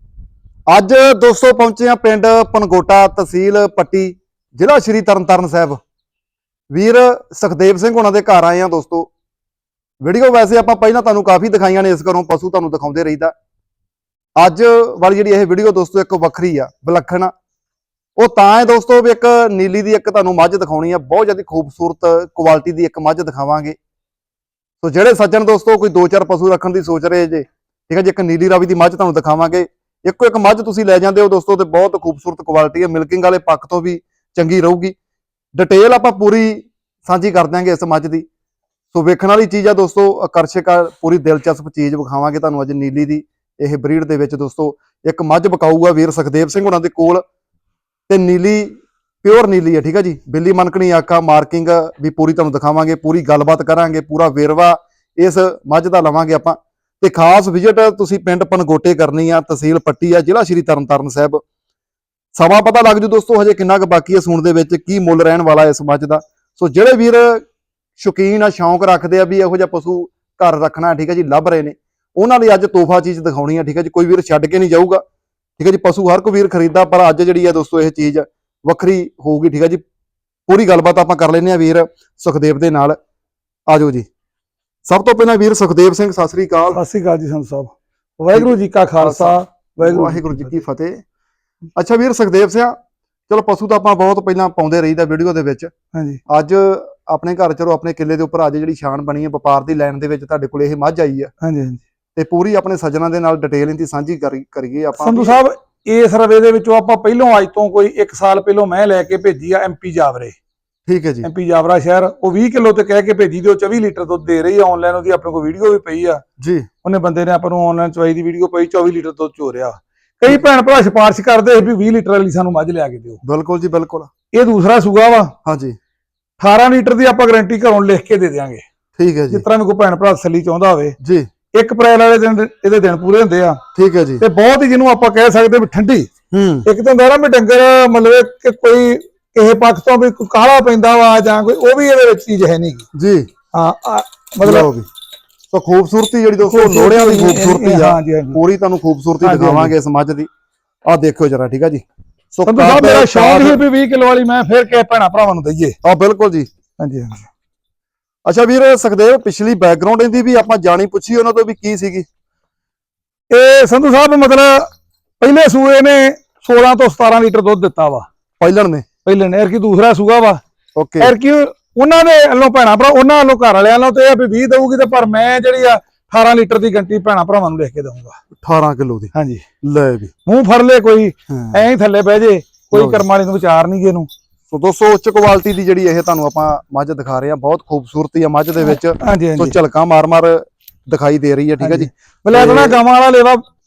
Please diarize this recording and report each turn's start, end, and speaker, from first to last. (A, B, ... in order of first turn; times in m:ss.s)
0:00.7-0:05.8 A
0:06.7-0:09.1 A
0:10.0-0:13.3 A
0:14.4-0:17.3 A
0:18.2-0:23.8 A
0:24.8-0:35.0 A
0:35.5-0:38.2 A
0:38.9-0:47.2 A
0:48.1-1:01.4 A
1:02.4-1:07.4 A
1:08.0-1:15.0 A
1:15.6-1:19.8 A
1:20.5-1:23.0 A
1:23.7-1:24.1 A
1:24.8-1:26.8 A
1:26.7-1:30.5 B
1:28.3-1:31.0 A
1:31.8-1:32.8 A
1:33.3-1:35.7 A
1:35.9-1:36.2 B
1:36.3-1:41.3 A
1:41.4-1:41.8 B
1:42.2-1:45.4 A
1:45.0-1:50.4 B
1:50.9-1:51.3 A
1:51.2-1:56.2 B
1:56.4-1:56.7 A
1:56.8-2:03.2 B
2:03.2-2:04.1 A
2:04.3-2:05.3 B
2:05.4-2:05.8 A
2:06.4-2:08.6 B
2:09.0-2:09.4 A
2:09.3-2:10.9 B
2:11.0-2:11.3 A
2:11.5-2:13.6 B
2:13.7-2:14.2 A
2:14.2-2:16.1 B
2:16.3-2:16.7 A
2:16.6-2:22.8 B
2:22.9-2:23.3 A
2:23.5-2:24.7 B
2:24.4-2:24.9 A
2:25.5-2:30.3 A
2:26.4-2:28.4 B
2:29.2-2:29.7 B
2:30.9-2:33.6 A
2:32.5-2:35.8 B
2:35.8-2:36.5 A
2:36.8-2:37.3 B
2:38.2-2:42.0 A
2:43.3-2:44.7 B
2:45.2-2:48.1 B
2:48.4-2:48.8 A
2:49.0-2:50.4 B
2:50.8-2:51.1 A
2:51.0-2:58.2 B
2:58.4-2:59.1 A
2:59.1-2:59.4 B
2:59.6-3:00.1 A
3:00.2-3:04.1 B
3:01.3-3:01.6 A
3:02.7-3:03.0 A
3:04.5-3:12.8 A
3:08.7-3:09.5 B
3:11.6-3:13.4 B